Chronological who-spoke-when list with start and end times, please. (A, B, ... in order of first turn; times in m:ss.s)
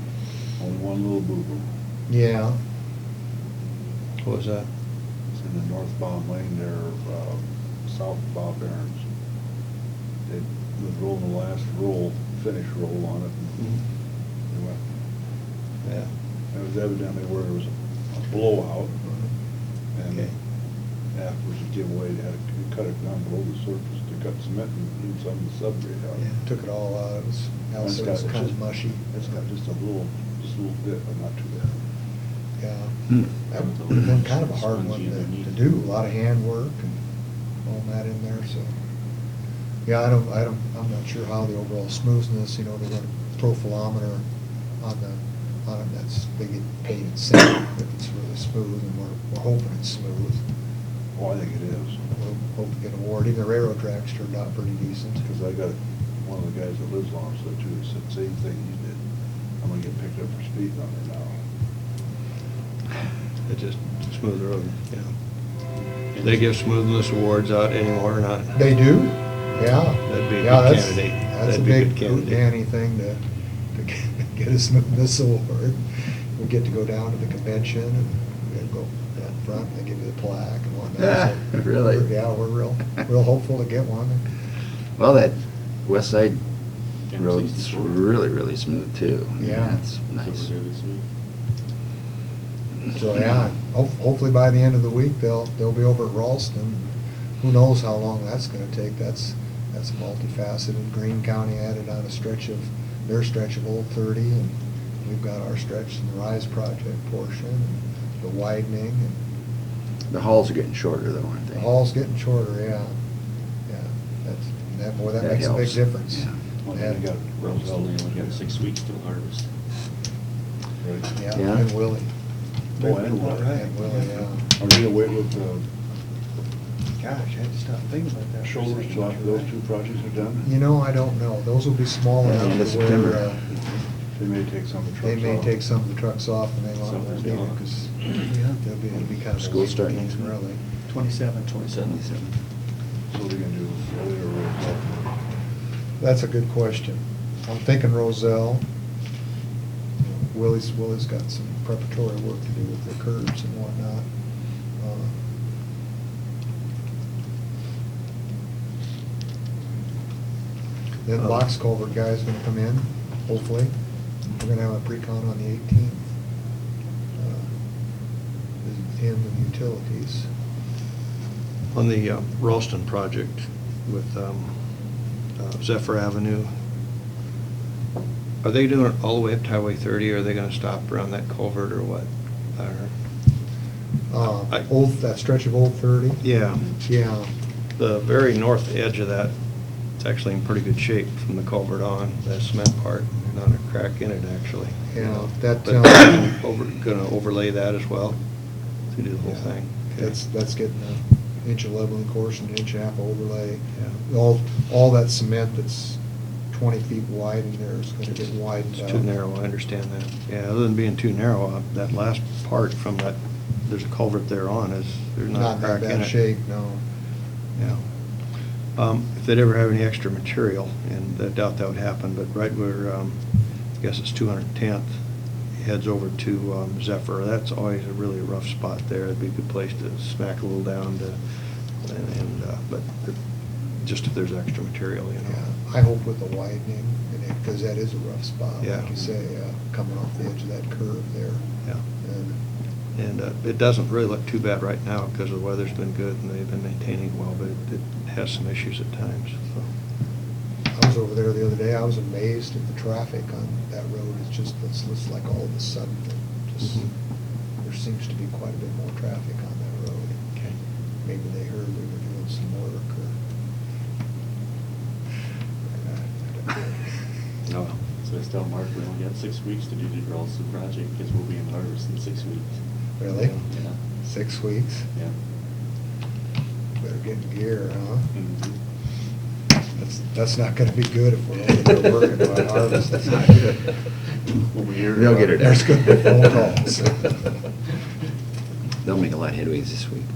0:00.6-0:01.6 A
0:02.1-0:02.6 B
0:04.2-0:04.7 C
0:05.4-0:09.0 A
0:10.3-0:13.8 A
0:14.5-0:14.8 A
0:16.5-0:19.0 A
0:20.0-0:20.3 A
0:21.1-0:26.3 A
0:26.2-0:29.1 B
0:27.8-0:28.6 A
0:29.1-0:31.8 A
0:32.6-0:37.0 B
0:33.5-0:35.6 D
0:37.6-0:38.7 B
0:39.9-0:44.2 B
0:44.8-0:50.4 B
0:51.2-0:52.0 A
0:52.1-0:55.2 B
0:55.2-0:59.0 A
0:59.6-1:01.3 A
1:03.5-1:05.1 C
1:06.2-1:06.4 D
1:06.2-1:08.6 C
1:08.6-1:13.2 B
1:10.0-1:12.4 C
1:13.7-1:15.8 B
1:16.4-1:24.2 B
1:21.0-1:22.0 E
1:25.0-1:26.4 E
1:27.1-1:28.0 D
1:27.2-1:30.5 E
1:29.4-1:29.8 B
1:30.0-1:31.0 D
1:32.9-1:49.2 B
1:50.1-1:51.7 E
1:51.5-1:53.0 B
1:53.7-1:57.0 B
1:55.2-1:56.3 E
1:56.6-1:58.6 A
1:57.4-1:59.4 D
2:00.8-2:01.1 A
2:01.1-2:02.1 B
2:01.3-2:01.7 E
2:02.8-2:03.6 A
2:02.8-2:04.3 F
2:03.4-2:04.4 B
2:04.6-2:05.6 A
2:07.0-2:09.5 F
2:08.4-2:10.5 A
2:10.4-2:13.6 B
2:12.2-2:13.4 E
2:14.2-2:15.6 A
2:15.0-2:20.6 B
2:16.8-2:17.6 D
2:19.4-2:20.3 E
2:20.9-2:21.9 F
2:21.6-2:22.3 E
2:23.1-2:25.1 A
2:26.0-2:28.6 B
2:30.0-2:34.1 B
2:34.8-2:35.2 B
2:41.1-2:43.7 B
2:44.4-2:46.1 B
2:47.2-2:47.5 B
2:48.6-2:50.3 B
2:51.7-2:54.6 C
2:55.4-2:56.5 C
2:58.4-3:02.9 C
3:04.1-3:07.3 B
3:06.2-3:06.7 C
3:07.8-3:09.3 C
3:10.0-3:18.2 C
3:14.9-3:16.3 B
3:18.9-3:20.1 C
3:19.3-3:26.0 B
3:26.5-3:29.0 B
3:28.8-3:36.1 C
3:35.3-3:36.8 B
3:38.8-3:43.2 C
3:43.8-3:44.9 C
3:45.6-3:51.2 C
3:51.8-3:53.2 C
3:53.8-3:55.4 C
3:55.3-4:01.4 B
3:58.6-3:59.0 C
4:02.0-4:02.4 B
4:03.0-4:09.7 C
4:10.7-4:16.9 B
4:17.6-4:20.2 B
4:21.0-4:23.2 B
4:25.8-4:26.7 B
4:27.5-4:27.8 C
4:28.0-4:32.5 D
4:33.0-4:33.4 B
4:33.5-4:33.8 D
4:34.0-4:34.9 B
4:36.8-4:38.1 B
4:38.1-4:38.5 D
4:39.8-4:43.6 B
4:44.5-4:45.2 D
4:44.9-4:46.0 E
4:45.3-4:47.3 B
4:48.8-4:50.1 E